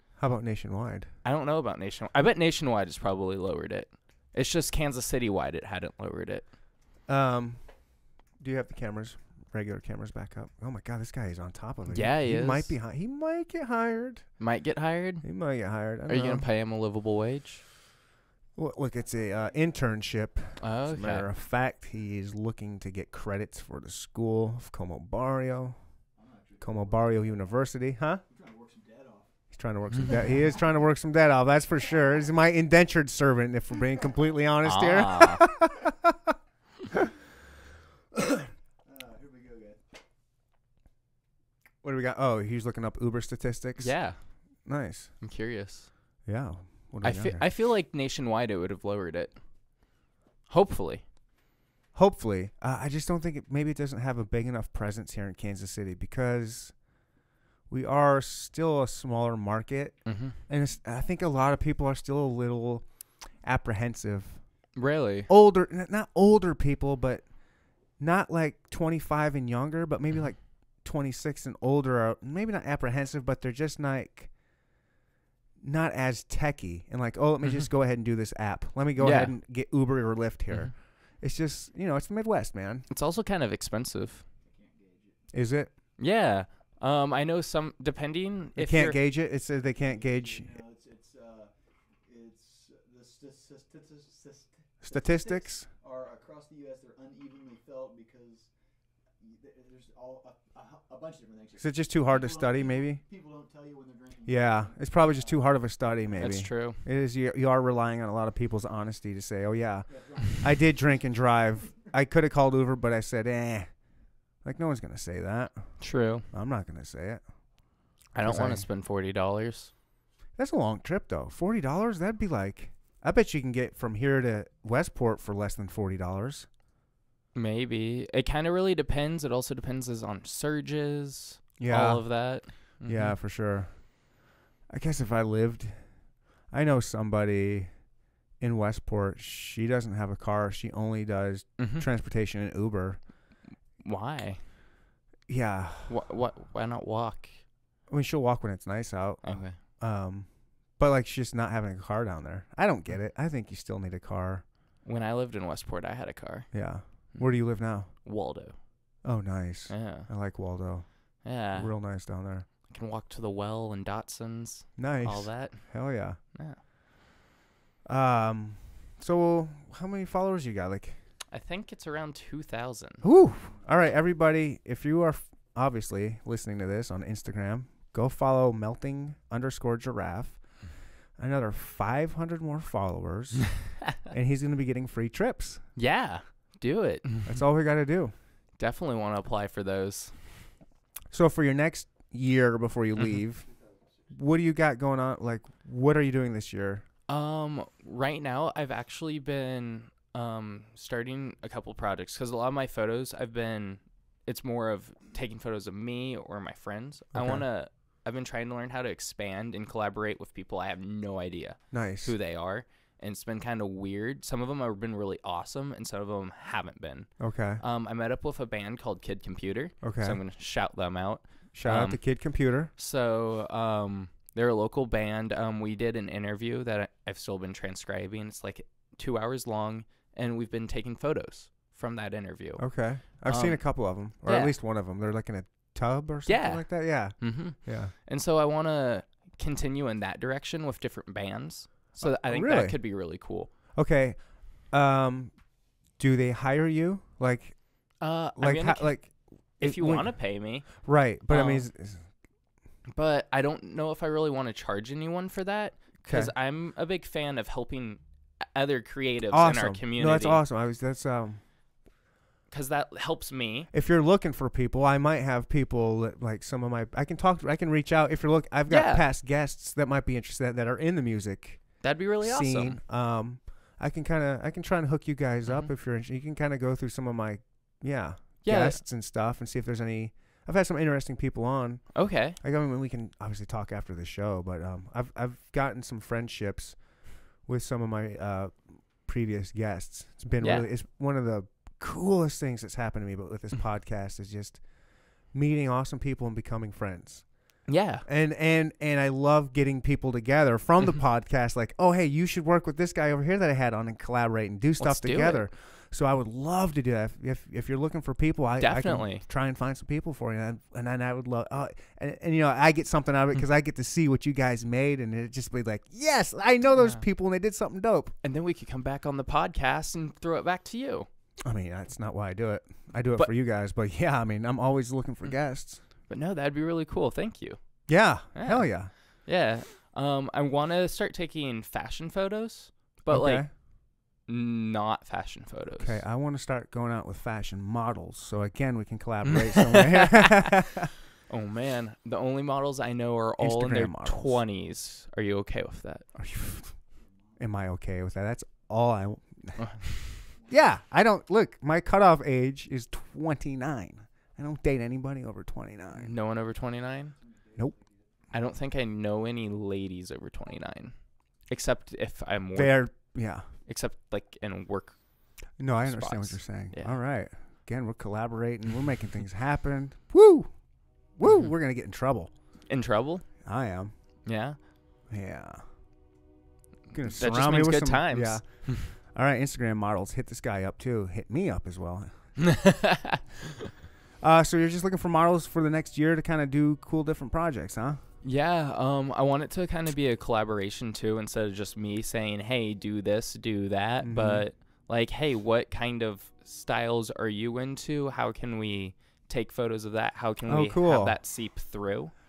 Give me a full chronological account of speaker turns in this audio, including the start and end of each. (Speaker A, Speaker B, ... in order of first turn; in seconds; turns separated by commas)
Speaker A: 0.2-1.1, Speaker B: 1.2-6.4, Speaker A: 7.1-7.6, Speaker A: 8.4-14.2, Speaker B: 11.9-12.8, Speaker B: 14.4-15.2, Speaker A: 15.2-16.5, Speaker B: 16.1-17.6, Speaker A: 18.6-25.8, Speaker C: 19.0-19.7, Speaker B: 20.6-21.3, Speaker C: 26.1-27.5, Speaker A: 26.6-28.2, Speaker C: 28.3-29.4, Speaker A: 29.5-36.3, Speaker B: 34.6-35.5, Speaker C: 38.8-39.8, Speaker A: 41.8-43.9, Speaker B: 43.8-44.2, Speaker A: 44.6-45.1, Speaker B: 45.2-45.9, Speaker A: 46.2-47.4, Speaker B: 47.0-49.3, Speaker B: 50.5-51.0, Speaker A: 51.9-56.7, Speaker A: 57.7-62.8, Speaker B: 60.0-60.4, Speaker A: 63.4-64.4, Speaker B: 64.8-65.3, Speaker A: 65.3-67.2, Speaker A: 68.0-74.3, Speaker A: 75.6-82.8, Speaker B: 79.0-79.3, Speaker B: 82.9-84.2, Speaker C: 84.4-85.3, Speaker A: 85.3-85.7, Speaker B: 86.0-89.0, Speaker A: 88.6-90.5, Speaker C: 89.7-91.5, Speaker C: 92.0-98.5, Speaker A: 94.8-95.7, Speaker C: 99.2-106.3, Speaker A: 101.6-103.0, Speaker A: 104.2-113.7, Speaker B: 106.2-106.8, Speaker C: 109.9-110.9, Speaker A: 114.4-115.6, Speaker B: 115.8-116.3, Speaker A: 116.3-117.2, Speaker B: 118.1-119.7, Speaker A: 118.2-118.7, Speaker A: 120.4-126.5, Speaker B: 127.3-133.2, Speaker A: 131.6-132.3, Speaker A: 132.8-133.9, Speaker A: 134.7-135.8, Speaker A: 136.5-137.7, Speaker A: 138.4-143.0, Speaker B: 141.6-141.8, Speaker B: 143.8-144.4, Speaker A: 145.3-145.9, Speaker B: 145.9-147.4, Speaker A: 147.9-154.4, Speaker B: 149.2-149.6, Speaker B: 154.8-156.5, Speaker A: 156.5-157.9, Speaker B: 157.1-157.4, Speaker B: 157.9-158.5, Speaker A: 159.0-160.9, Speaker B: 159.7-160.1, Speaker B: 161.2-161.7, Speaker A: 161.5-162.4, Speaker B: 162.7-165.7, Speaker A: 164.8-166.2, Speaker B: 166.3-166.6, Speaker A: 167.8-171.0, Speaker B: 171.3-173.0, Speaker A: 173.0-180.4, Speaker A: 181.2-185.6, Speaker B: 185.8-187.2, Speaker A: 187.2-188.1, Speaker B: 188.6-190.3, Speaker A: 191.1-193.5, Speaker A: 194.1-196.8, Speaker B: 197.1-217.1, Speaker A: 207.1-207.4, Speaker A: 211.7-212.1, Speaker A: 217.2-217.6, Speaker B: 217.6-222.0, Speaker A: 219.8-220.2, Speaker A: 221.5-222.7, Speaker B: 222.8-232.6, Speaker A: 232.6-237.9, Speaker B: 233.2-234.5, Speaker B: 236.2-243.5, Speaker A: 242.0-242.8, Speaker A: 243.8-245.3, Speaker A: 246.0-247.6, Speaker B: 248.0-248.9, Speaker A: 248.4-252.0, Speaker B: 249.6-250.7, Speaker B: 251.3-251.7, Speaker B: 252.9-260.4, Speaker A: 256.1-256.3, Speaker A: 259.3-261.4, Speaker B: 262.5-263.7, Speaker A: 263.7-286.8, Speaker B: 268.7-269.0, Speaker B: 271.8-272.8, Speaker B: 278.4-278.8, Speaker B: 281.9-282.4, Speaker A: 287.4-294.6, Speaker B: 290.4-290.7, Speaker A: 295.3-297.2, Speaker B: 297.7-298.0, Speaker A: 298.0-318.1, Speaker B: 304.8-305.4, Speaker B: 308.6-309.2, Speaker B: 316.7-317.0, Speaker B: 318.2-321.1, Speaker A: 321.4-325.8, Speaker B: 326.1-327.6, Speaker A: 327.9-328.9, Speaker B: 328.3-328.7, Speaker B: 329.2-333.5, Speaker A: 333.1-333.5, Speaker B: 334.3-336.0, Speaker A: 335.8-340.9, Speaker B: 339.5-340.5, Speaker B: 341.3-346.1, Speaker A: 343.4-344.4, Speaker A: 346.1-346.7, Speaker A: 347.4-356.1, Speaker B: 349.6-349.9, Speaker B: 355.9-357.1, Speaker C: 357.2-358.0, Speaker B: 358.3-360.9, Speaker B: 361.5-362.9, Speaker A: 362.5-363.4, Speaker B: 363.6-365.0, Speaker A: 365.6-370.5, Speaker B: 365.8-367.0, Speaker A: 371.2-372.3, Speaker B: 372.7-373.2, Speaker A: 373.4-373.9, Speaker B: 374.2-374.6, Speaker A: 375.1-375.6, Speaker A: 376.9-382.1, Speaker B: 377.0-378.4, Speaker B: 382.4-383.6, Speaker A: 384.2-388.0, Speaker B: 388.2-402.1, Speaker A: 394.0-394.4, Speaker A: 400.4-401.1